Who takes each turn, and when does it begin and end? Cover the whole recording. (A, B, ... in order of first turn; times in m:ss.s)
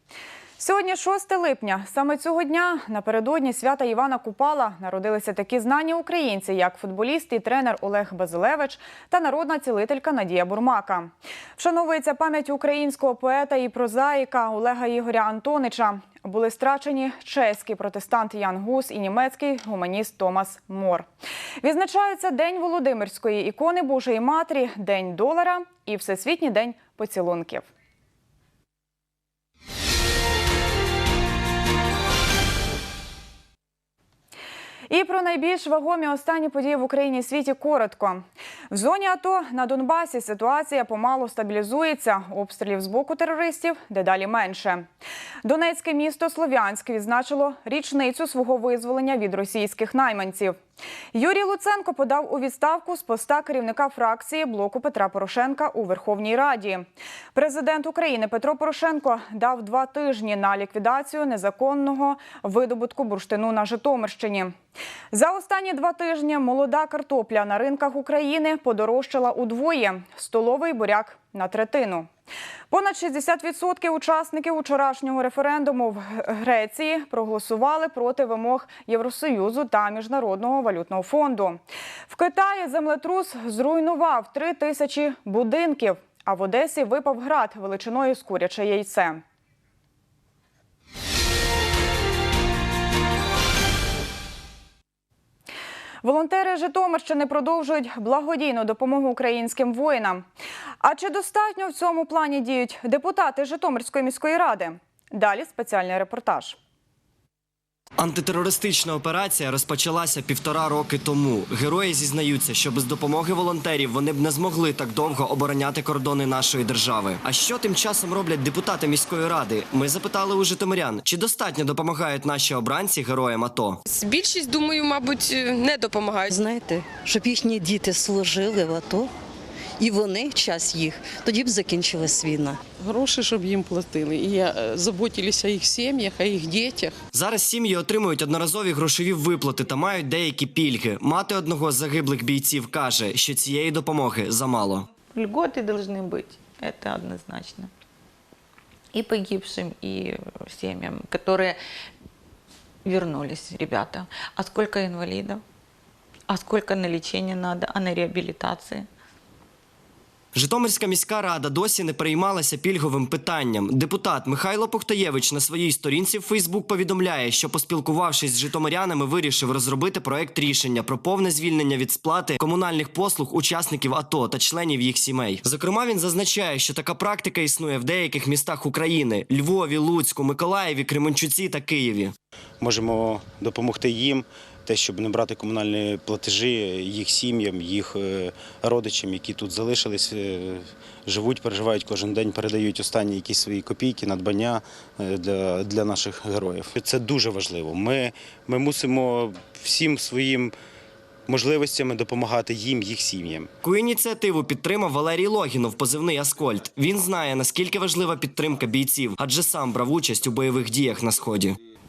0:00.6-0:21.1 A
0:21.6-0:27.6 A
0:34.9-0:44.8 A
0:45.4-0:50.6 A
0:51.1-1:04.5 A
1:05.1-1:12.1 A
1:12.7-1:29.2 A
1:36.0-1:40.2 A
1:40.8-1:46.6 A
1:48.0-2:03.8 B
2:03.9-2:06.3 C
2:06.3-2:09.1 D
2:09.8-2:12.6 D
2:12.9-2:16.5 E
2:17.1-2:24.9 B
2:25.1-2:27.7 F
2:28.9-2:31.6 F
2:32.8-2:35.4 F
2:36.3-2:38.9 F
2:40.3-3:02.1 B
3:02.6-3:20.5 G
3:21.3-3:23.5 G
3:23.6-3:31.6 B